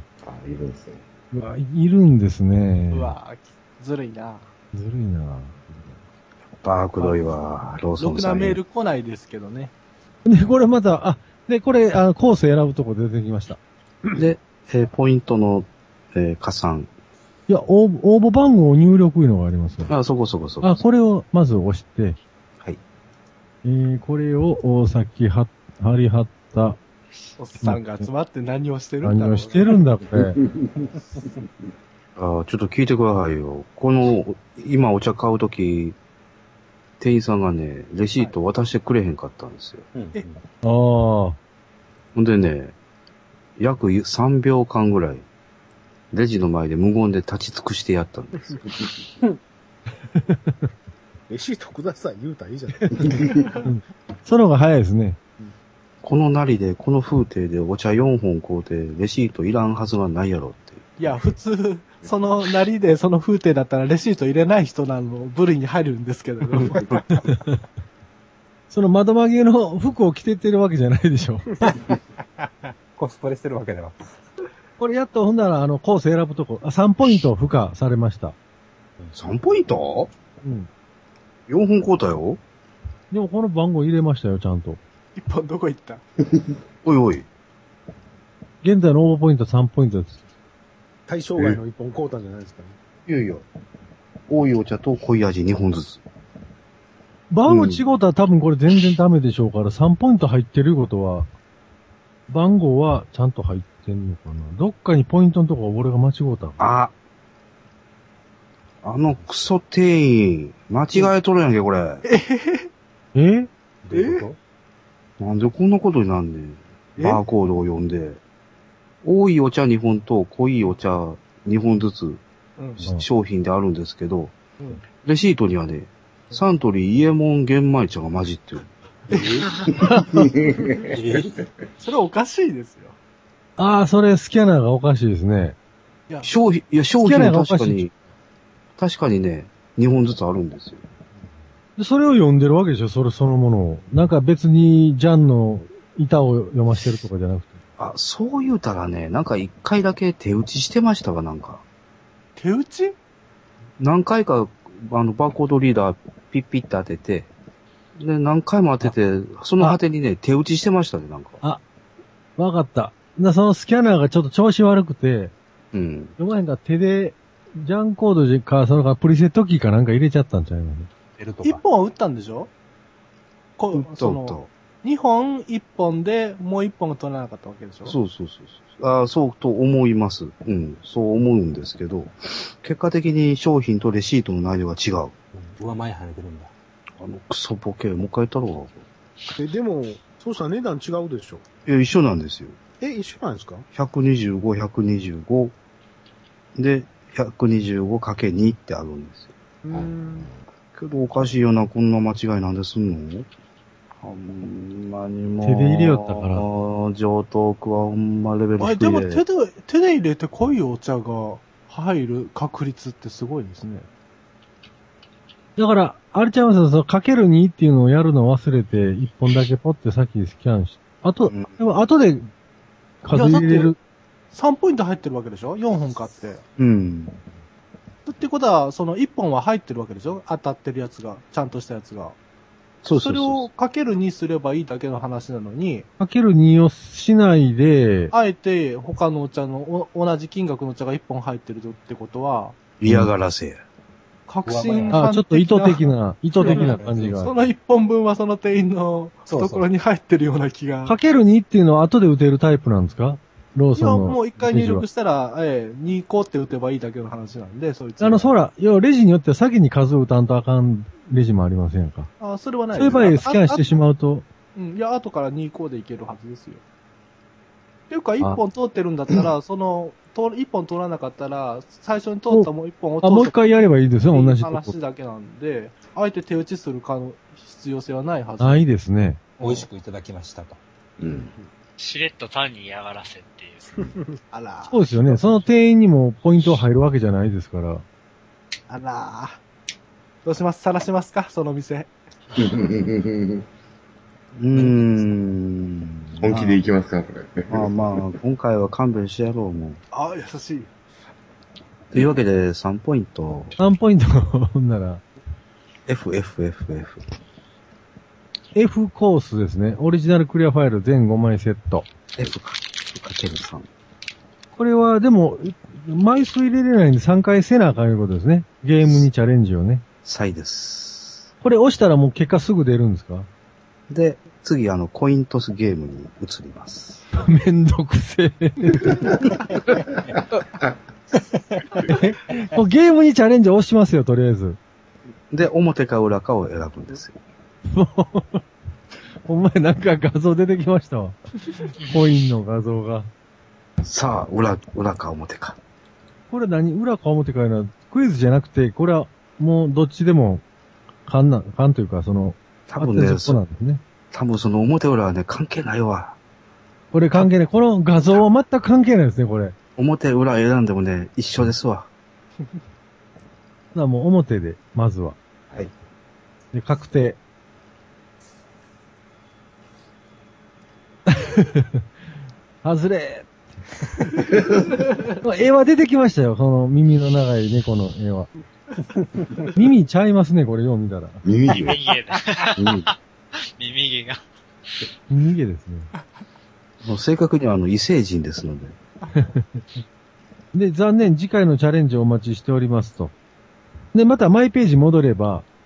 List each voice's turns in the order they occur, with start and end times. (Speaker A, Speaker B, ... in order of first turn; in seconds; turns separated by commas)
Speaker A: 0.2-1.0, Speaker B: 1.3-3.1, Speaker C: 2.9-4.4, Speaker B: 4.7-5.9, Speaker D: 6.6-8.6, Speaker C: 8.0-9.7, Speaker B: 10.2-13.6, Speaker D: 14.1-16.9, Speaker B: 17.5-19.9, Speaker D: 19.9-20.8, Speaker B: 20.6-22.2, Speaker B: 23.6-26.8, Speaker C: 27.4-29.8, Speaker B: 27.6-28.1, Speaker B: 29.0-30.4, Speaker A: 30.1-30.8, Speaker D: 32.1-36.0, Speaker D: 37.0-39.9, Speaker E: 39.9-40.4, Speaker B: 40.6-41.4, Speaker D: 42.1-42.7, Speaker D: 43.6-45.2, Speaker D: 46.1-48.6, Speaker B: 50.1-50.5, Speaker F: 51.3-53.4, Speaker B: 53.6-55.2, Speaker D: 56.0-60.9, Speaker C: 61.0-67.0, Speaker B: 67.3-67.6, Speaker B: 68.7-71.5, Speaker E: 72.4-74.0, Speaker B: 74.8-78.3, Speaker D: 79.1-80.1, Speaker B: 80.4-80.7, Speaker D: 81.5-82.4, Speaker B: 83.1-84.8, Speaker C: 85.2-86.0, Speaker D: 86.8-87.3, Speaker B: 88.6-90.2, Speaker F: 91.1-92.8, Speaker D: 93.1-93.4, Speaker D: 94.3-96.0, Speaker B: 97.3-101.3, Speaker D: 97.5-97.8, Speaker B: 102.3-106.6, Speaker D: 106.6-106.9, Speaker D: 108.8-112.0, Speaker C: 112.0-112.7, Speaker B: 113.1-113.5, Speaker E: 113.8-114.3, Speaker C: 113.9-114.3, Speaker D: 115.2-118.2, Speaker D: 119.0-122.2, Speaker C: 122.6-122.8, Speaker D: 122.8-124.4, Speaker D: 124.9-129.2, Speaker B: 129.8-130.3, Speaker A: 129.9-130.9, Speaker E: 130.9-131.4, Speaker C: 131.8-133.0, Speaker B: 133.6-135.6, Speaker D: 136.2-137.9, Speaker B: 137.0-137.9, Speaker D: 138.8-140.8, Speaker B: 141.8-147.6, Speaker D: 147.8-151.6, Speaker C: 152.4-152.9, Speaker D: 153.8-157.3, Speaker D: 158.0-161.4, Speaker B: 162.4-165.3, Speaker D: 165.7-166.1, Speaker B: 166.2-170.9, Speaker E: 171.2-171.6, Speaker C: 171.4-172.5, Speaker C: 173.6-177.9, Speaker D: 173.7-174.5, Speaker D: 177.9-185.1, Speaker E: 185.3-186.5, Speaker D: 187.0-188.8, Speaker F: 189.3-191.4, Speaker D: 191.7-192.6, Speaker F: 192.8-193.6, Speaker D: 193.7-195.5, Speaker D: 196.6-199.3, Speaker F: 199.6-200.3, Speaker A: 199.7-200.4, Speaker D: 200.7-203.3, Speaker D: 204.0-209.2, Speaker B: 205.4-206.4, Speaker C: 208.6-213.9, Speaker B: 215.6-222.3, Speaker D: 221.2-221.6, Speaker B: 223.0-223.8, Speaker C: 223.1-223.7, Speaker C: 224.3-226.4, Speaker D: 226.6-227.2, Speaker C: 228.1-232.2, Speaker D: 232.8-233.5, Speaker C: 232.9-235.9, Speaker B: 236.0-238.1, Speaker C: 238.1-242.5, Speaker D: 242.8-243.6, Speaker C: 244.3-250.9, Speaker E: 244.4-245.1, Speaker B: 244.9-247.3, Speaker E: 246.4-247.3, Speaker E: 249.3-249.7, Speaker B: 250.9-254.8, Speaker C: 253.7-258.3, Speaker B: 258.0-262.1, Speaker C: 262.2-263.6, Speaker B: 262.7-264.2, Speaker C: 264.6-266.6, Speaker C: 267.9-278.7, Speaker B: 273.0-274.7, Speaker B: 278.4-279.2, Speaker E: 279.4-280.6, Speaker A: 281.0-281.3, Speaker G: 281.8-283.9, Speaker C: 284.3-285.5, Speaker B: 284.7-287.8, Speaker C: 288.7-289.4, Speaker C: 290.2-291.9, Speaker A: 292.4-293.4, Speaker D: 294.4-296.6, Speaker E: 294.5-295.1, Speaker A: 296.2-298.0, Speaker D: 297.5-299.8, Speaker C: 299.9-300.7, Speaker D: 301.9-303.6, Speaker B: 303.6-305.0, Speaker D: 305.9-307.0, Speaker B: 308.5-311.9, Speaker D: 312.1-313.7, Speaker B: 314.6-319.8, Speaker D: 320.0-321.3, Speaker B: 321.4-323.3, Speaker D: 323.9-327.0, Speaker B: 327.1-329.2, Speaker B: 331.9-334.6, Speaker D: 335.3-337.2, Speaker B: 337.7-338.4, Speaker B: 339.2-343.1, Speaker D: 343.8-345.6, Speaker B: 346.3-350.4, Speaker B: 351.1-353.8, Speaker D: 352.7-353.4, Speaker D: 354.1-356.2, Speaker B: 356.9-359.5, Speaker D: 359.8-361.9, Speaker B: 363.7-365.2, Speaker B: 366.5-367.2, Speaker B: 371.1-371.6, Speaker B: 372.6-373.3, Speaker B: 375.1-378.3, Speaker B: 379.5-381.2, Speaker A: 381.2-381.8, Speaker G: 381.6-382.9, Speaker D: 382.6-382.9, Speaker G: 383.6-384.2, Speaker B: 385.1-385.9, Speaker D: 386.8-388.8, Speaker B: 389.1-389.6, Speaker B: 390.5-393.1, Speaker B: 393.9-395.4